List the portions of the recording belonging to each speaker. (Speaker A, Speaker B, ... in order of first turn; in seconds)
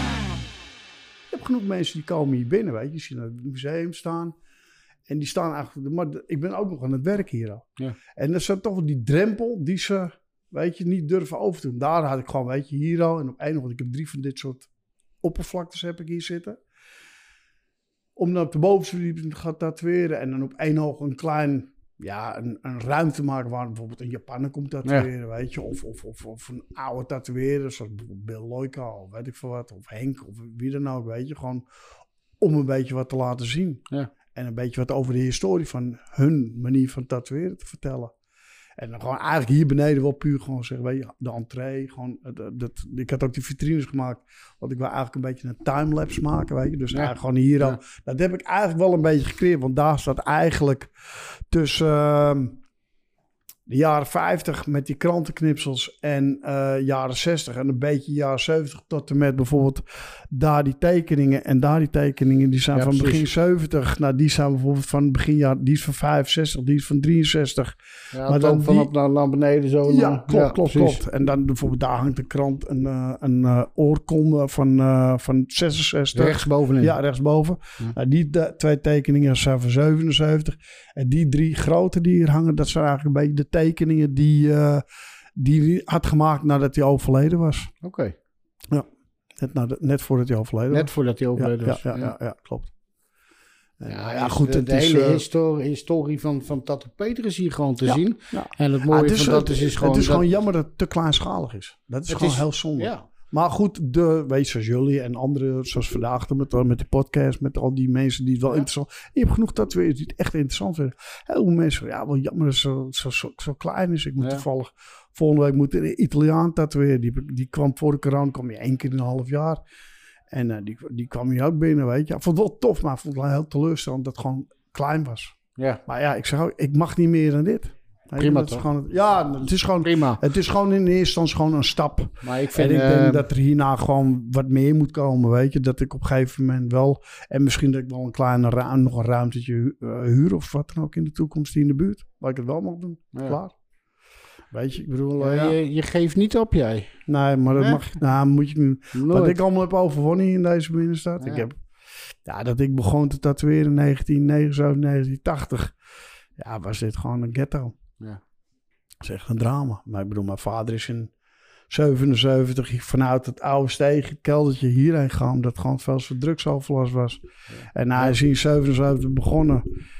Speaker A: 1.3-4.3, 5.1-14.7, 15.2-16.6, 18.1-31.6, 32.4-38.1, 38.8-52.6, 53.7-68.9, 69.9-84.8, 85.3-87.7, 88.7-92.7, 93.8-95.2, 97.8-119.6, 120.3-143.5, 144.5-145.6, 147.1-151.6, 152.2-155.8, 156.4-157.8, 159.0-161.1, 161.7-169.7
Speaker B: 46.9-47.8, 62.7-63.2, 68.1-71.0, 76.1-76.9, 87.8-88.1, 90.7-92.1, 93.9-100.2, 102.1-103.0, 128.2-128.6, 129.8-130.2, 132.2-133.2, 145.2-146.9, 148.9-149.4, 151.2-151.5, 167.5-168.2